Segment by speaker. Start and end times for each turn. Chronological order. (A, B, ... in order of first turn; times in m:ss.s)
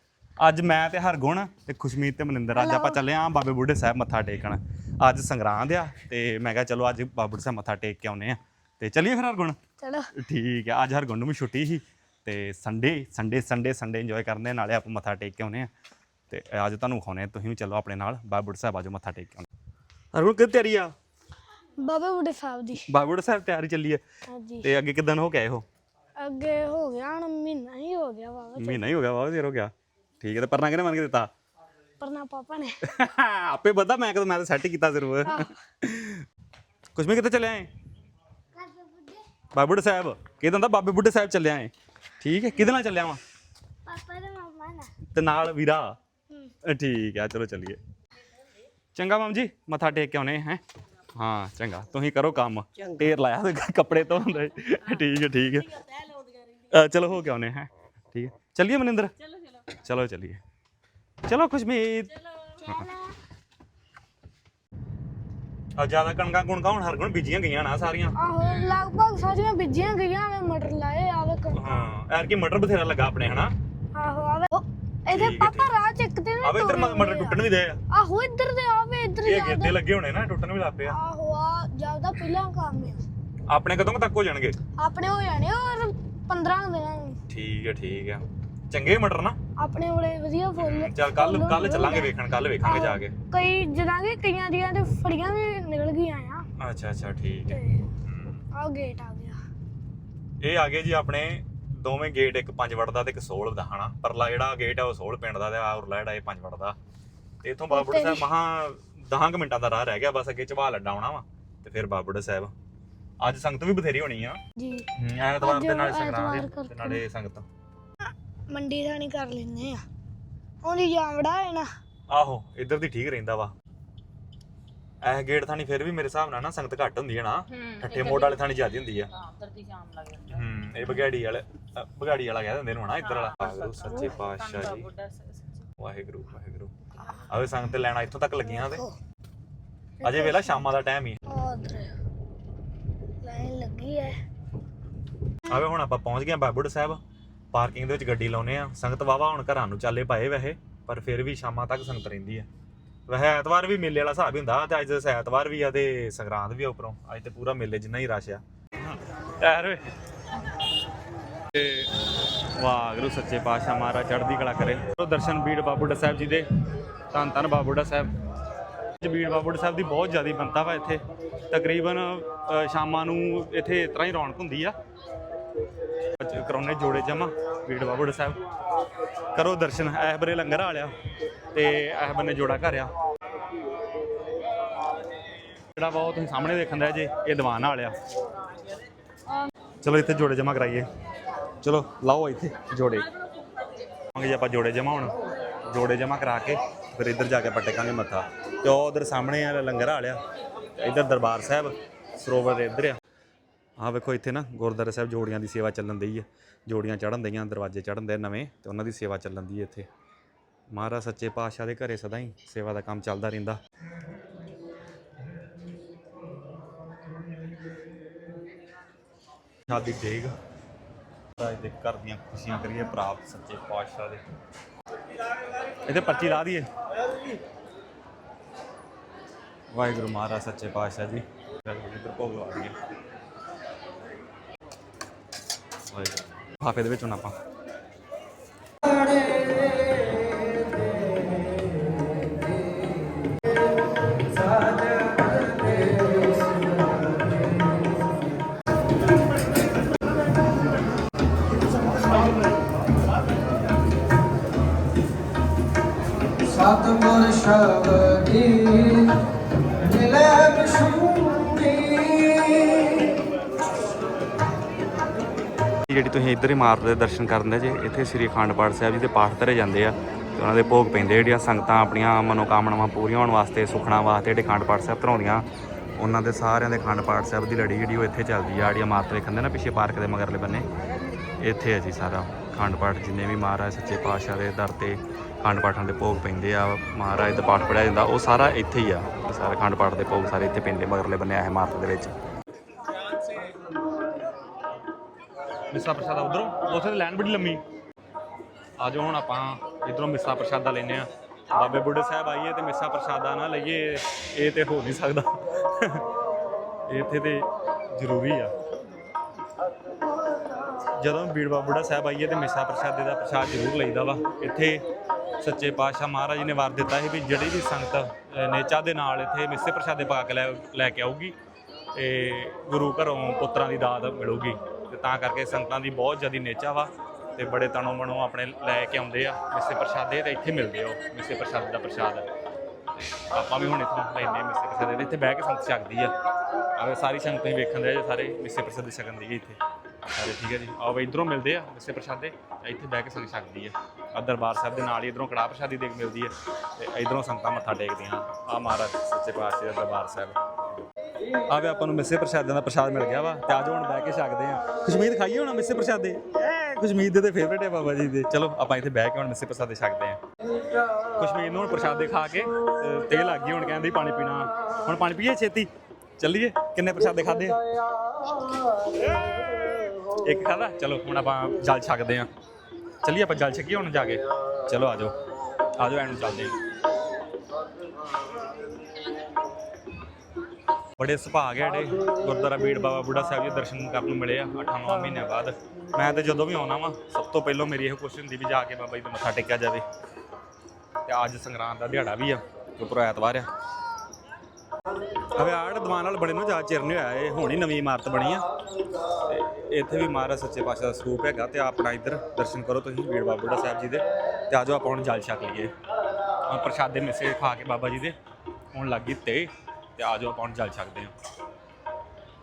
0:00.4-0:09.6 A
0:02.5-0:03.0 B
0:09.8-0:10.1 B
0:10.2-0:15.7 A
0:16.3-0:19.5 A
0:20.1-0:20.9 A
0:21.8-0:22.9 B
0:22.9-0:24.0 A
0:24.3-0:24.7 B
0:24.6-0:25.6 A
0:26.2-0:28.8 B
0:28.6-0:31.3 A
0:32.0-0:32.9 B
0:32.9-0:36.2 A
0:37.0-0:37.7 A
0:38.6-0:39.1 B
0:39.5-0:43.2 A
0:43.9-0:44.9 B
0:45.1-0:46.0 A
0:46.6-0:47.8 A
0:49.0-0:50.6 A
0:51.2-0:55.8 A
0:56.6-0:59.1 A
0:59.7-1:00.4 A
1:01.3-1:02.9 A
1:02.7-1:03.0 B
1:05.8-1:08.2 A
1:08.2-1:11.9 B
1:11.5-1:13.5 A
1:14.0-1:19.8 B
1:15.1-1:15.7 A
1:16.4-1:17.8 A
1:19.2-1:21.0 A
1:20.9-1:23.0 B
1:23.5-1:24.6 A
1:24.8-1:27.2 B
1:27.3-1:29.4 A
1:29.6-1:36.4 B
1:30.6-1:33.1 A
1:36.6-1:38.4 A
1:37.5-1:37.9 B
1:38.5-1:39.4 B
1:40.4-1:46.8 A
1:47.4-1:52.5 A
1:47.7-1:48.3 B
1:53.2-1:54.4 A
1:54.6-1:54.9 B
1:55.0-1:57.5 A
1:55.4-1:57.0 B
1:58.5-1:59.8 B
2:00.6-2:01.7 B
2:02.1-2:03.5 A
2:05.0-2:09.1 A
2:07.8-2:08.4 C
2:09.2-2:10.3 C
2:10.2-2:14.9 A
2:13.7-2:15.4 C
2:15.8-2:18.8 A
2:18.6-2:18.9 B
2:20.0-2:20.8 B
2:20.0-2:21.2 A
2:21.3-2:22.0 B
2:23.2-2:24.2 B
2:25.5-2:27.0 A
2:27.5-2:32.5 A
2:33.1-2:39.8 A
2:41.5-2:41.9 A
2:42.6-2:46.5 A
2:47.1-2:48.1 A
2:49.0-2:54.8 A
2:56.2-2:58.4 A
2:59.3-3:00.9 A
3:01.5-3:02.9 A
3:05.7-3:08.0 A
3:09.8-3:10.9 A
3:11.6-3:13.1 A
3:14.1-3:15.2 A
3:15.7-3:20.2 A
3:20.8-3:23.0 A
3:23.8-3:29.9 A
3:30.7-3:33.6 A
3:39.7-3:40.4 A
3:41.4-3:44.2 A
3:45.8-3:46.7 A
3:49.7-3:52.7 A
3:55.9-3:57.3 A
3:58.9-3:59.4 D
4:04.5-4:06.4 D
4:16.5-4:19.1 D
4:19.8-4:23.1 D
4:25.9-4:35.5 A
4:36.0-4:40.7 A
4:41.4-4:52.2 A
4:55.7-4:57.6 A
4:58.8-5:06.0 A
5:06.9-5:08.5 A
5:11.0-5:14.8 A
5:15.4-5:21.4 A
5:21.9-5:32.3 A
5:33.1-5:36.1 A
5:36.8-5:50.4 A
5:51.5-6:00.2 A
6:01.0-6:07.6 A
6:08.9-6:12.3 A
6:13.0-6:15.1 A
6:15.8-6:16.6 A
6:21.0-6:29.8 A
6:31.1-6:33.5 A
6:35.3-6:38.4 A
6:39.1-6:45.7 A
6:46.5-6:48.2 A
6:48.7-6:51.1 A